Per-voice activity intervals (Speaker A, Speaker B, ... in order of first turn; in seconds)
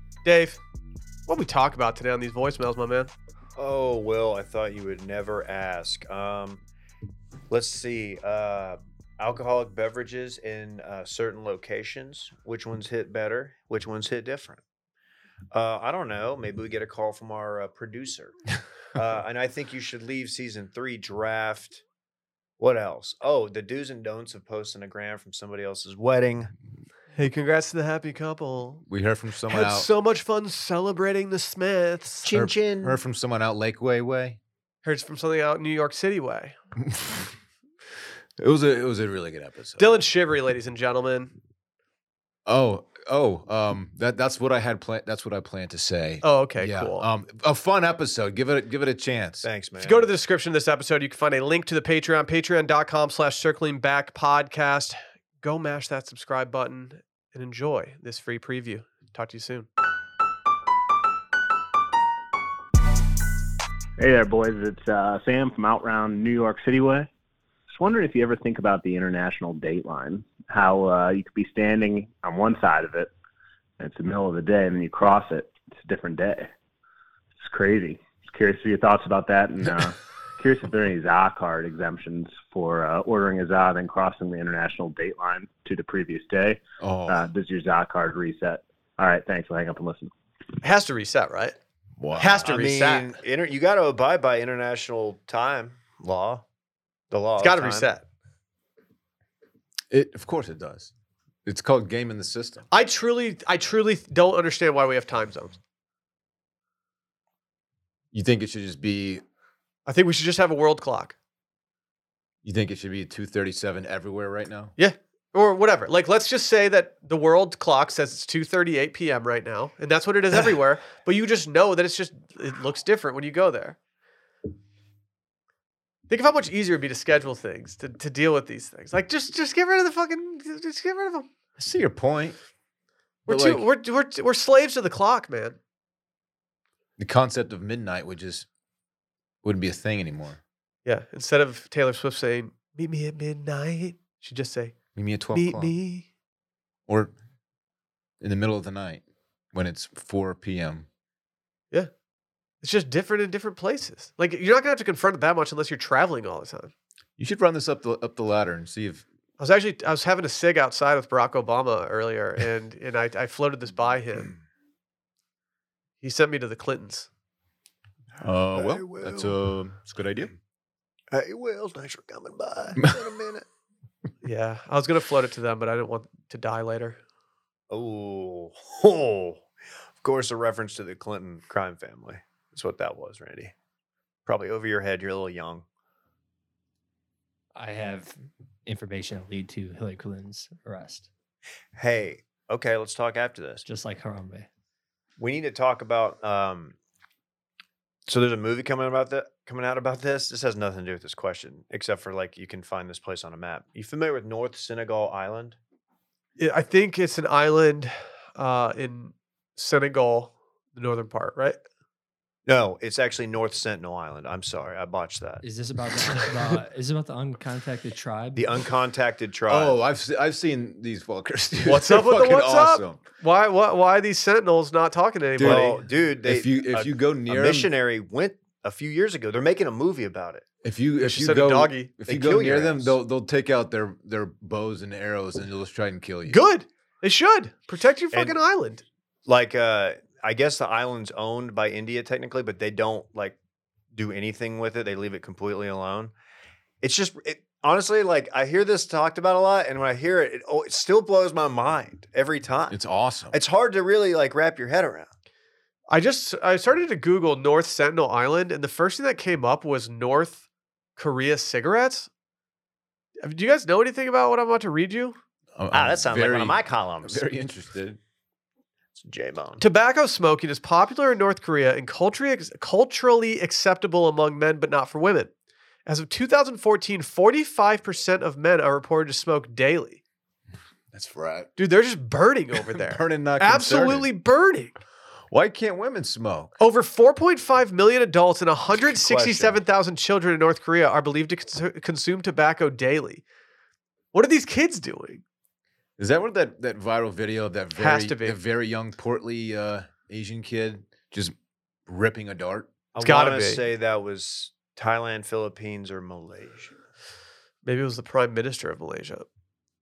Speaker A: 0.2-0.6, 1.3-3.1, 27.1-28.9, 29.5-32.3, 34.8-36.5, 39.8-41.3, 46.2-47.1, 49.8-59.7, 90.6-91.6, 92.1-93.1, 97.4-98.1, 102.7-105.6, 109.9-111.2, 114.8-123.8, 126.1-131.3, 133.3-135.6, 140.8-144.8, 145.3-146.1, 152.6-156.7, 159.4-164.3, 166.0-167.1, 174.2-177.0, 206.4-211.6, 221.7-225.8, 231.0-231.9, 236.3-238.8, 255.9-260.4, 261.0-262.1, 263.2-265.2, 269.6-275.3, 275.9-280.0, 281.6-284.8, 286.6-293.2, 294.1-295.2, 297.8-298.4, 303.0-303.6, 307.6-309.3
Speaker B: 3.6-6.6, 7.5-14.6, 15.5-18.4, 18.9-21.8, 22.6-26.5, 32.2-33.0, 49.4-50.1, 92.4-96.4, 97.1-97.9, 168.5-169.4, 171.1-173.4, 177.7-179.4, 180.0-183.5, 184.3-185.6, 191.8-193.6, 195.2-196.8, 198.1-205.6, 212.5-215.4, 218.3-219.8, 225.4-230.4, 232.1-233.0, 238.1-238.4, 239.3-243.4, 243.9-246.1, 246.8-252.8, 253.3-255.1, 265.7-267.2, 269.0-269.6, 288.9-289.6, 302.9-306.7
Speaker C: 28.9-29.9, 32.3-34.4, 36.8-37.3, 38.4-39.9, 42.5-49.5, 86.8-87.3, 92.0-92.5, 99.9-100.9, 101.5-102.7, 108.1-109.2, 112.4-114.7, 131.6-132.4, 133.3-133.6, 137.0-138.5, 139.4-140.4, 144.9-145.7, 146.9-147.1, 148.2-150.9, 157.2-159.1, 168.2-170.3, 219.5-223.0, 225.4-227.7, 230.6-236.5, 252.7-253.4, 265.6-268.0, 280.9-281.5, 282.9-284.1, 285.3-286.5, 296.0-301.3, 301.9-302.7
Speaker D: 64.0-67.1, 67.7-73.1, 73.8-76.5, 77.5-90.1
Speaker E: 187.6-191.1, 193.7-194.5, 215.4-218.5